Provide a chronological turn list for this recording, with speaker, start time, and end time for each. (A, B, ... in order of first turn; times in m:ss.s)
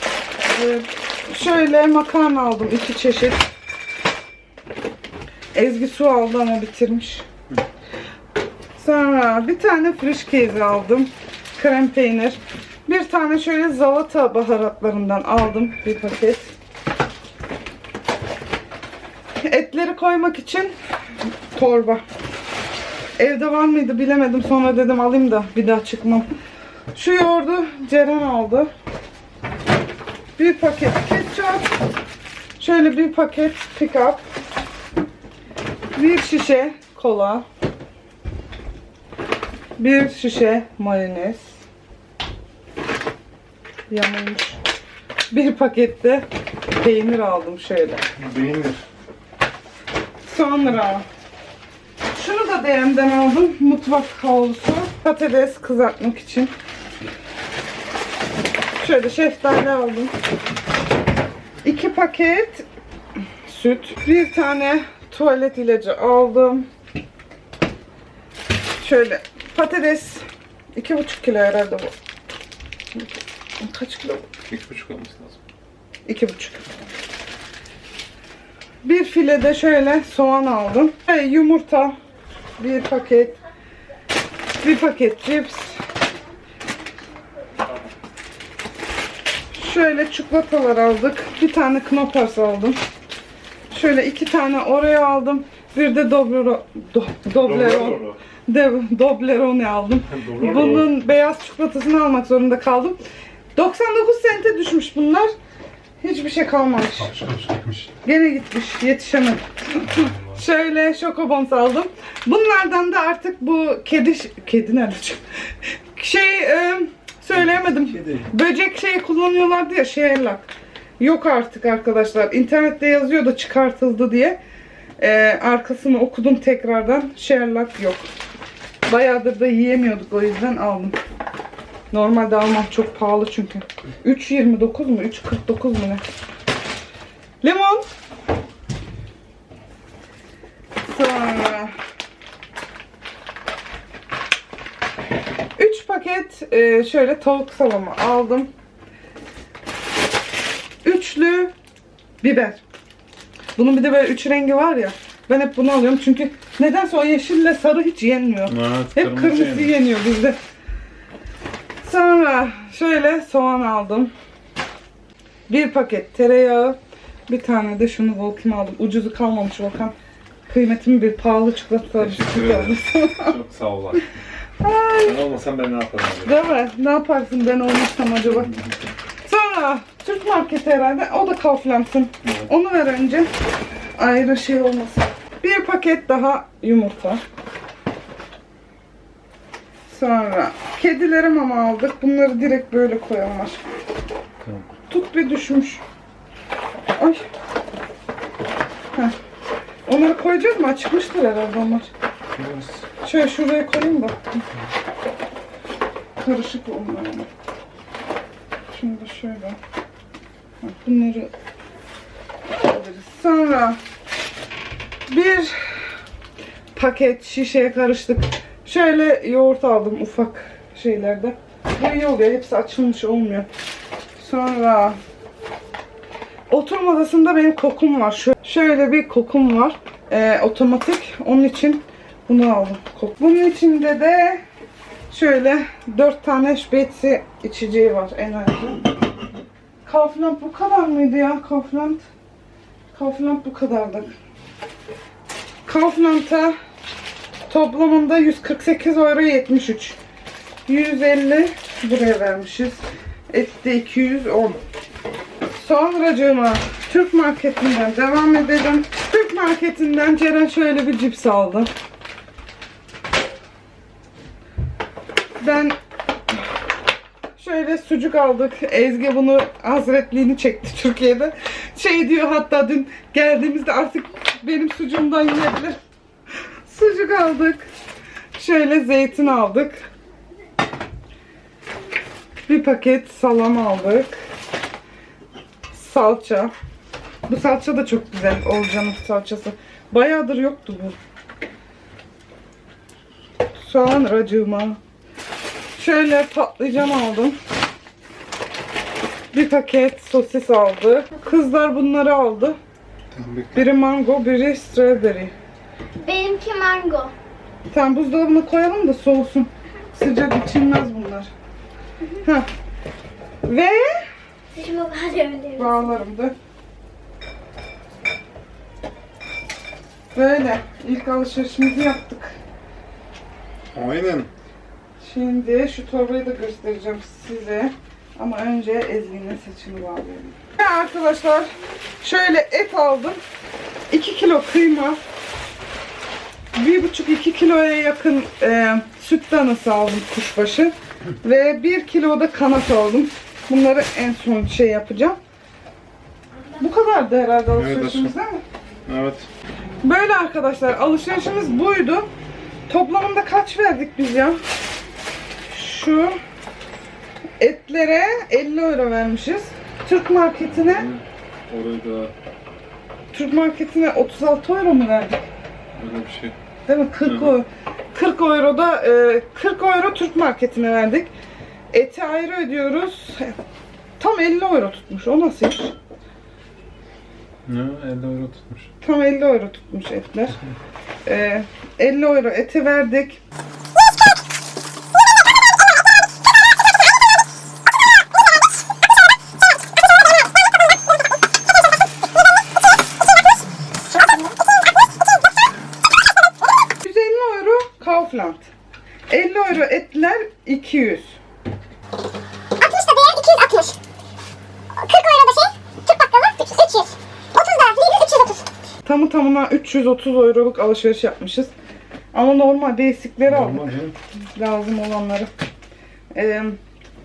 0:00.5-0:03.4 A
0:05.5-0:07.2 A
0:08.8-0:16.5 A
0:19.4-0:20.7 A
0:21.5-0:22.0 A
0:23.2-0:26.2 A
0:26.9-0:28.7 A
0:30.4-0:31.7 A
0:32.6-0:34.2 A
0:35.9-0:37.4 A
0:39.8-0:41.5 A
0:43.9-0:44.6 A
0:45.3-0:48.0 A
0:48.2-0:48.8 B
0:50.2-0:51.0 A
0:52.1-0:56.5 A
0:58.8-1:00.1 A
1:01.6-1:02.7 A
1:03.4-1:06.6 A
1:08.8-1:10.2 A
1:10.8-1:11.9 A
1:12.9-1:14.2 A
1:14.5-1:15.4 B
1:16.0-1:16.6 A
1:18.8-1:21.9 A
1:22.6-1:23.4 A
1:24.6-1:25.8 A
1:29.5-1:32.8 A
1:33.7-1:43.0 A
1:37.4-1:38.2 B
1:40.1-1:40.9 B
1:43.5-1:45.3 A
1:46.0-1:47.2 A
1:47.0-1:47.9 B
1:48.0-2:04.4 A
1:49.8-1:50.4 B
1:57.9-1:58.3 B
2:05.0-2:08.1 A
2:08.9-2:11.0 A
2:11.9-2:16.0 A
2:17.4-2:17.8 A
2:20.8-2:21.7 A
2:25.6-2:28.5 A
2:30.8-2:31.5 A
2:32.2-2:32.6 A
2:33.6-2:40.4 A
2:38.5-2:39.7 B
2:41.8-2:44.1 A
2:45.5-2:49.9 A
2:50.5-2:53.4 A
2:52.0-2:54.0 B
2:54.6-2:55.2 A
2:55.0-2:56.4 B
2:56.2-2:58.6 A
2:59.2-3:03.3 A
3:02.2-3:02.5 B
3:04.0-3:07.2 A
3:09.9-3:13.6 A
3:14.4-3:14.7 B
3:14.9-3:15.8 A
3:17.0-3:17.2 A
3:19.9-3:21.9 A
3:22.4-3:22.8 B
3:23.0-3:24.4 A
3:26.2-3:27.3 A
3:28.7-3:29.6 A
3:30.6-3:31.3 A
3:32.6-3:33.8 A
3:35.1-3:36.0 A
3:36.7-3:43.5 A
3:44.2-3:45.0 A
3:46.5-3:54.4 A
3:55.1-3:58.9 A
3:59.8-4:02.0 A
4:02.9-4:04.1 A
4:05.6-4:06.5 A
4:07.5-4:10.0 A
4:10.7-4:14.6 A
4:15.5-4:21.7 A
4:25.4-4:25.8 A
4:27.4-4:35.8 A
4:36.6-4:37.7 A
4:38.3-4:39.9 A
4:42.5-4:44.1 A
4:45.7-4:46.5 A
4:47.3-4:51.0 A
4:53.6-4:54.8 A
4:55.7-4:57.4 A
4:59.3-5:02.6 A
5:03.1-5:03.6 B
5:03.5-5:05.3 A
5:06.0-5:07.1 C
5:07.7-5:11.3 A
5:12.2-5:12.5 A
5:13.4-5:14.0 A
5:14.5-5:15.9 C
5:15.6-5:16.3 A
5:20.1-5:22.3 A
5:23.7-5:24.3 B
5:25.0-5:31.5 A
5:32.0-5:33.2 A
5:33.9-5:35.0 A
5:36.5-5:45.2 A
5:46.6-5:48.4 A
5:47.5-5:48.1 B
5:48.8-5:49.3 B
5:49.8-5:52.1 A
5:52.7-5:54.4 A
5:55.4-5:56.2 A
5:57.4-6:00.8 A
6:00.4-6:02.1 B
6:03.1-6:05.2 A
6:05.7-6:06.4 B
6:06.7-6:11.1 A
6:07.0-6:07.3 B
6:11.7-6:13.4 A
6:14.0-6:15.7 A
6:17.5-6:18.7 B
6:18.8-6:20.4 A
6:21.0-6:23.2 A
6:33.9-6:34.3 C
6:36.8-6:38.5 A
6:39.1-6:41.2 A
6:42.6-6:43.8 C
6:44.8-6:48.4 C
6:48.8-6:51.5 A
6:52.1-6:53.8 A
6:53.3-6:54.0 B
6:54.4-6:55.3 A
6:56.1-6:56.6 A